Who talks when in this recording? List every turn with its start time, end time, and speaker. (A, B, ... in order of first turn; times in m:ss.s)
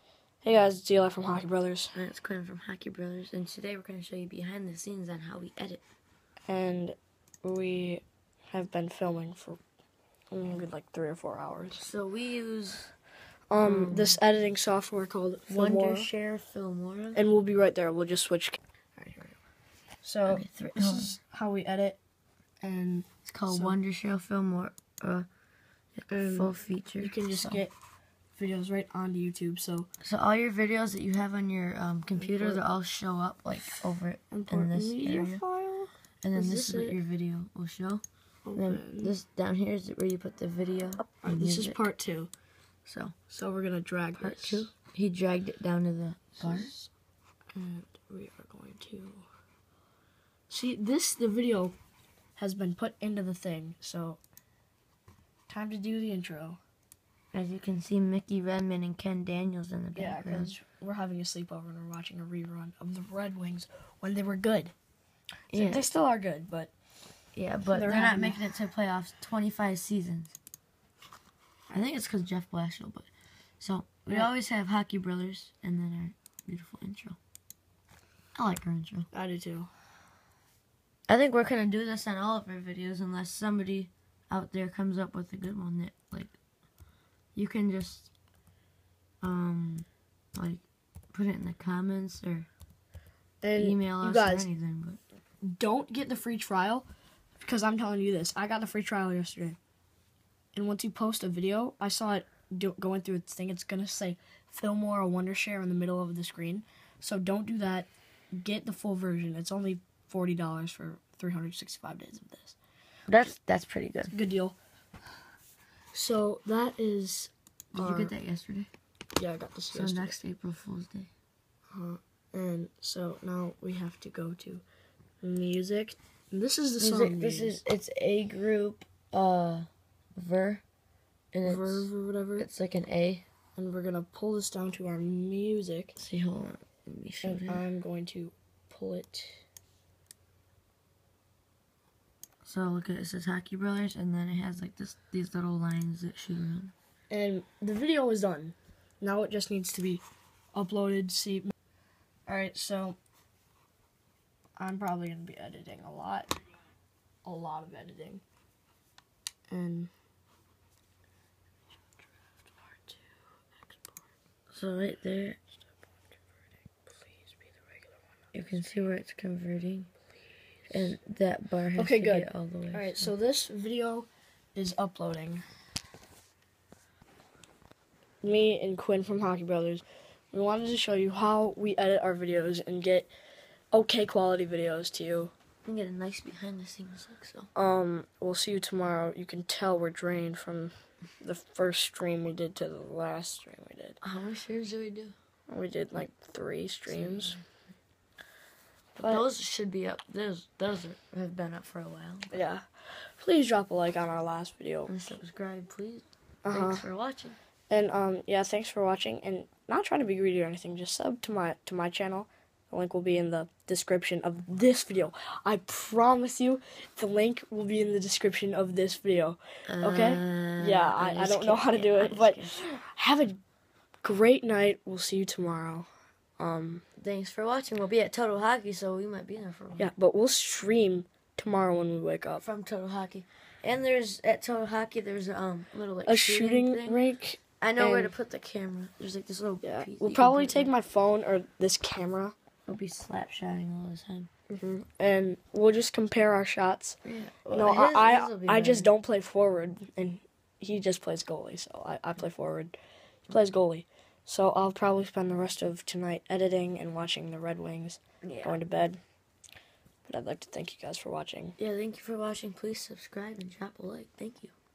0:00.4-0:02.0 A
0:01.9-0:05.8 B
0:06.5-0:09.6 A
0:10.3-0:11.8 A
0:11.8-0:12.9 B
0:13.5-0:16.1 A
0:13.6-0:14.2 B
0:15.5-0:17.2 B
0:17.1-0:19.4 A
0:20.0-0:22.0 A
0:20.3-0:21.2 B
0:22.6-0:23.8 A
0:23.3-0:25.3 B
0:26.0-0:27.6 B
0:26.1-0:27.7 A
0:28.4-0:29.9 A
0:30.0-0:35.4 B
0:32.2-0:32.6 A
0:34.3-0:37.0 A
0:36.2-0:38.0 B
0:38.5-0:39.2 A
0:38.6-0:41.9 B
0:41.2-0:42.3 A
0:42.9-0:43.2 B
0:43.3-0:44.7 A
0:44.2-0:46.7 B
0:46.4-0:46.9 A
0:47.5-0:49.3 A
0:50.5-0:51.8 A
0:52.4-0:54.2 A
0:55.5-0:56.6 A
0:57.3-1:00.6 B
1:00.0-1:04.7 A
1:05.5-1:05.8 B
1:05.5-1:06.7 A
1:07.4-1:10.3 B
1:07.7-1:08.7 A
1:11.7-1:13.1 B
1:13.6-1:17.2 B
1:18.3-1:19.1 B
1:19.1-1:19.7 A
1:21.1-1:26.4 B
1:27.4-1:28.1 B
1:29.2-1:32.5 B
1:33.4-1:34.5 A
1:33.6-1:35.0 B
1:35.4-1:36.9 A
1:37.4-1:39.6 A
1:40.5-1:52.6 A
1:53.1-1:54.2 B
1:54.1-1:54.6 A
1:55.9-1:58.1 A
1:57.7-1:58.7 B
1:59.2-2:00.2 A
1:59.7-2:01.1 B
2:01.7-2:04.6 A
2:05.2-2:07.6 A
2:06.8-2:10.6 B
2:11.3-2:13.2 B
2:11.4-2:12.5 A
2:13.6-2:16.0 A
2:16.0-2:17.6 B
2:17.2-2:19.4 A
2:22.4-2:26.7 B
2:27.1-2:30.0 A
2:30.5-2:31.5 A
2:32.3-2:33.0 A
2:34.6-2:36.4 A
2:37.2-2:38.2 A
2:39.5-2:39.9 A
2:42.4-2:44.1 A
2:44.5-2:45.4 B
2:46.8-2:48.6 A
2:48.3-2:49.9 B
2:50.7-2:53.1 B
2:51.8-2:55.4 A
2:58.2-3:03.1 A
3:03.7-3:05.3 A
3:05.6-3:07.5 B
3:07.6-3:14.0 A
3:14.0-3:15.2 B
3:15.5-3:17.4 A
3:16.9-3:17.4 B
3:19.0-3:22.4 B
3:22.3-3:24.9 A
3:24.9-3:27.4 B
3:26.4-3:26.9 A
3:27.7-3:43.4 A
3:39.7-3:42.8 B
3:44.0-3:45.9 A
3:46.4-3:46.8 A
3:47.0-3:49.9 B
3:49.8-3:52.5 A
3:52.4-3:57.0 B
3:56.1-3:58.2 A
3:57.6-4:00.7 B
3:59.6-4:02.4 A
4:02.7-4:04.3 B
4:04.5-4:12.7 A
4:07.0-4:08.9 B
4:13.3-4:19.0 A
4:18.2-4:18.6 B
4:20.1-4:21.6 A
4:21.6-4:24.5 B